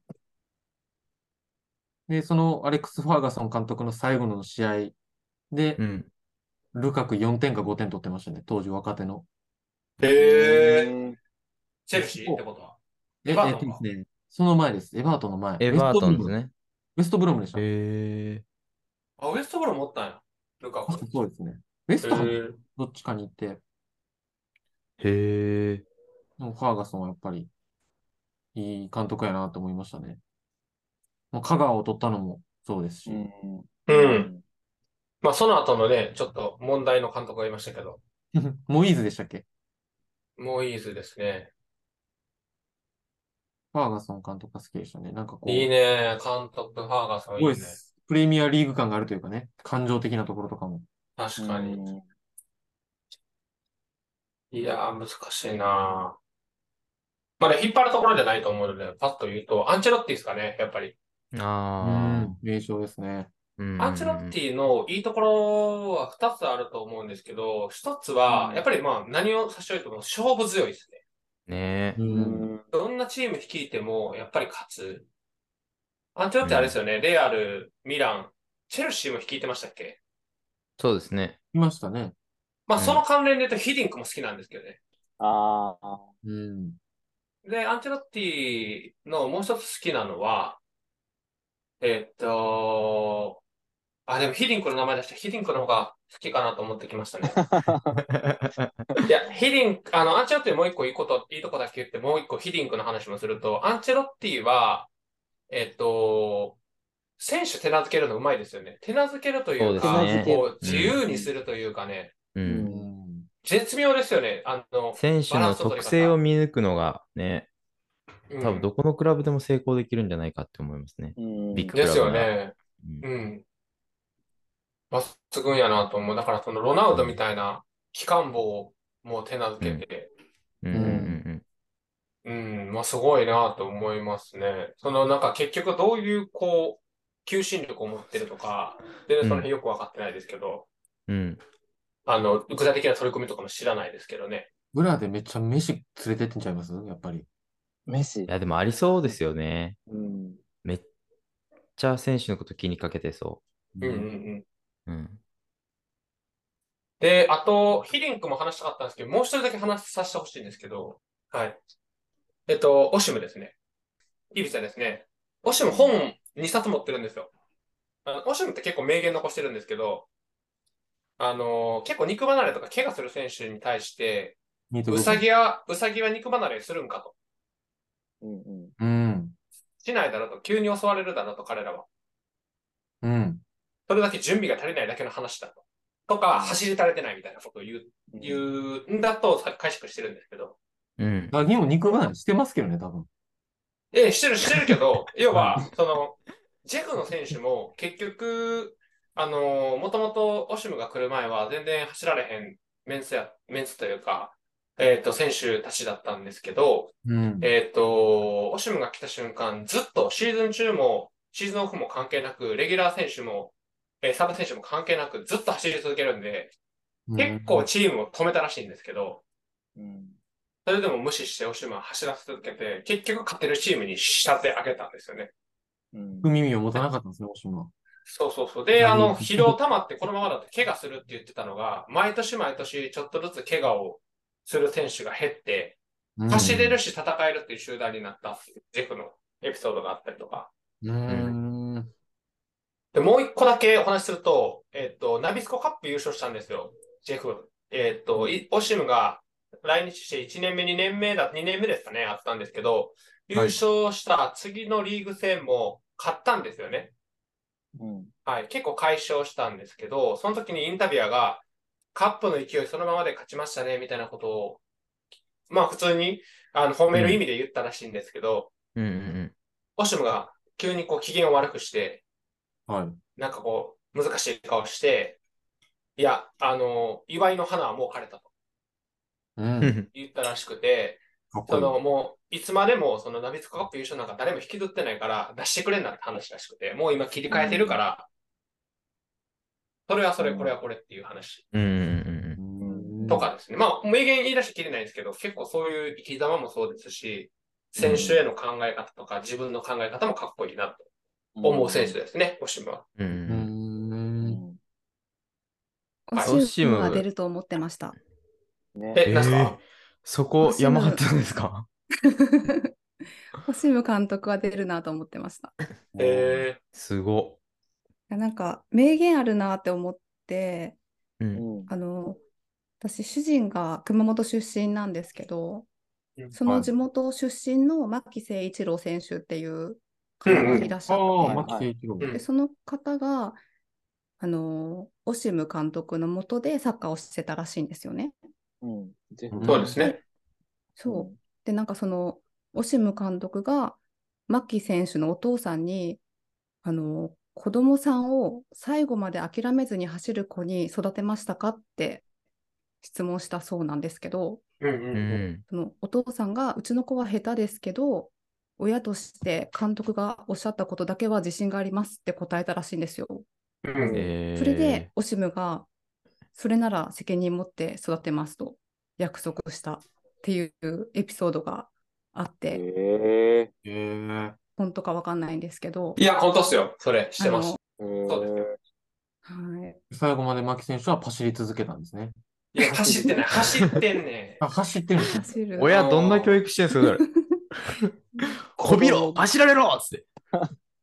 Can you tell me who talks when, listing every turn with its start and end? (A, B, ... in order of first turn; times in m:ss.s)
0:02.1-0:04.9 A
0:05.5-0:05.8 A
0:05.8-0:06.1 B
0:06.7-0:09.2 A
0:10.0-0:10.9 C
0:10.2-0:11.2 D
0:11.9-0:12.8 C
0:11.9-0:12.4 A
0:13.2-0:16.3 A
0:13.3-0:13.8 C
0:15.6-0:16.5 B
0:17.0-0:17.6 A
0:17.6-0:18.4 B
0:19.2-0:21.0 C
0:20.9-0:23.6 A
0:22.0-0:22.6 C
0:25.0-0:25.8 B
0:26.4-0:27.5 A
0:28.5-0:30.2 A
0:31.3-0:33.2 A
0:33.1-0:34.4 D
0:33.9-0:34.3 C
0:35.2-0:38.0 C
0:38.3-0:39.4 A
0:40.4-0:41.5 C
0:43.7-0:45.7 A
0:45.4-0:47.8 C
0:47.4-0:50.8 A
0:51.2-0:51.8 C
0:51.4-0:52.0 D
0:54.5-0:56.2 C
0:57.4-1:01.0 C
1:01.3-1:02.4 B
1:01.8-1:03.3 A
1:03.6-1:04.3 B
1:03.8-1:11.0 C
1:08.3-1:08.6 D
1:11.5-1:12.0 B
1:12.0-1:12.5 A
1:12.0-1:12.6 D
1:12.7-1:15.1 C
1:16.2-1:20.0 C
1:16.4-1:16.8 B
1:20.8-1:21.4 B
1:21.5-1:22.1 A
1:22.7-1:24.8 C
1:22.8-1:23.0 B
1:25.2-1:26.1 D
1:26.2-1:26.8 A
1:27.4-1:30.6 C
1:31.8-1:33.4 C
1:34.1-1:37.4 C
1:37.3-1:38.0 D
1:38.0-1:38.7 B
1:39.1-1:44.9 C
1:45.5-1:46.6 C
1:47.2-1:52.2 C
1:49.6-1:51.0 B
1:49.8-1:51.3 D
1:52.3-1:52.7 B
1:52.4-1:52.9 D
1:52.6-1:53.3 A
1:53.4-1:56.2 C
1:55.0-1:57.5 B
1:58.3-1:58.7 C
1:58.4-2:03.0 B
2:01.2-2:01.8 D
2:01.7-2:03.4 C
2:04.9-2:10.1 C
2:06.9-2:07.2 B
2:10.6-2:11.4 B
2:10.7-2:11.1 A
2:10.7-2:11.2 D
2:12.2-2:20.7 C
2:19.2-2:19.5 B
2:21.1-2:21.4 B
2:22.0-2:24.5 C
2:24.7-2:27.2 A
2:27.9-2:28.3 D
2:28.3-2:29.8 B
2:29.9-2:30.4 D
2:31.8-2:34.1 B
2:33.8-2:34.4 C
2:34.9-2:35.2 B
2:37.0-2:41.6 C
2:42.5-2:43.6 C
2:44.3-2:47.3 C
2:45.6-2:45.9 D
2:48.0-2:50.1 C
2:51.2-2:57.1 C
2:54.7-2:55.2 A
2:58.2-2:58.7 D
2:58.8-2:59.3 A
2:59.8-3:01.9 C
3:03.0-3:03.4 A
3:03.9-3:10.6 C
3:06.3-3:06.6 D
3:08.1-3:08.5 D
3:11.0-3:11.3 B
3:11.3-3:13.1 A
3:13.9-3:36.5 C
3:27.0-3:27.5 A
3:37.1-3:37.7 A
3:37.2-3:39.2 C
3:39.8-3:40.2 D
3:40.6-3:45.3 C
3:45.9-3:46.3 D
3:46.2-3:47.7 A
3:48.0-4:00.5 C
3:48.8-3:49.6 A
3:56.2-3:56.7 A
3:56.3-3:56.8 B
4:00.8-4:01.9 A
4:02.9-4:16.9 C
4:17.8-4:18.1 D
4:18.2-4:21.4 C
4:21.9-4:24.6 C
4:25.5-4:28.5 C
4:26.9-4:27.2 B
4:28.8-4:29.3 B
4:29.8-4:32.0 C
4:32.7-4:33.0 A
4:33.2-4:35.2 C
4:36.0-4:38.3 C
4:39.4-4:39.8 A
4:39.6-4:39.9 B
4:39.9-4:48.1 C
4:41.3-4:41.7 A
4:47.3-4:47.8 D
4:49.9-4:51.4 C
4:50.2-4:50.5 D
4:51.5-4:52.4 B
4:52.4-4:53.2 A
4:52.5-4:53.2 D
4:53.1-5:00.8 C
4:57.8-4:58.2 D
5:01.4-5:02.0 D
5:01.4-5:02.8 C
5:03.0-5:03.5 B
5:03.3-5:04.4 A
5:04.2-5:04.6 D
5:06.1-5:08.0 E
5:06.2-5:07.1 B
5:08.8-5:09.0 D
5:08.9-5:09.6 C
5:09.0-5:11.7 B
5:10.4-5:11.0 E
5:12.1-5:12.7 E
5:13.4-5:15.5 E
5:16.0-5:16.3 A
5:16.0-5:16.6 C
5:16.7-5:17.4 B
5:18.1-5:20.8 E
5:21.2-5:21.4 B
5:21.3-5:21.7 D
5:21.7-5:22.2 E
5:22.8-5:25.6 E
5:26.3-5:31.6 E
5:30.2-5:30.7 C
5:30.3-5:30.7 D
5:30.9-5:32.1 A
5:31.3-5:31.7 D
5:32.1-5:33.4 E
5:34.2-5:38.1 E
5:38.6-5:39.8 D
5:39.3-5:39.8 A
5:39.4-5:40.0 C
5:40.8-5:46.0 E
5:40.9-5:41.2 D
5:46.6-5:52.0 E
5:52.8-5:54.4 E
5:54.6-5:55.2 C
5:54.9-5:55.4 B
5:55.4-6:03.2 E
6:03.6-6:04.0 C
6:03.8-6:04.1 D
6:03.9-6:04.9 B
6:04.3-6:05.7 E
6:06.3-6:12.6 E
6:12.5-6:13.5 D
6:13.6-6:14.4 A
6:14.6-6:16.0 E
6:16.0-6:18.4 C
6:17.2-6:17.6 E
6:17.8-6:18.6 D
6:19.2-6:19.8 E
6:19.9-6:22.1 A
6:22.5-6:24.4 C
6:22.6-6:23.2 D
6:24.4-6:25.2 A
6:25.1-6:25.8 E
6:25.6-6:27.0 B
6:25.7-6:26.4 C
6:26.8-6:27.4 E
6:28.2-6:28.9 E
6:28.5-6:30.0 B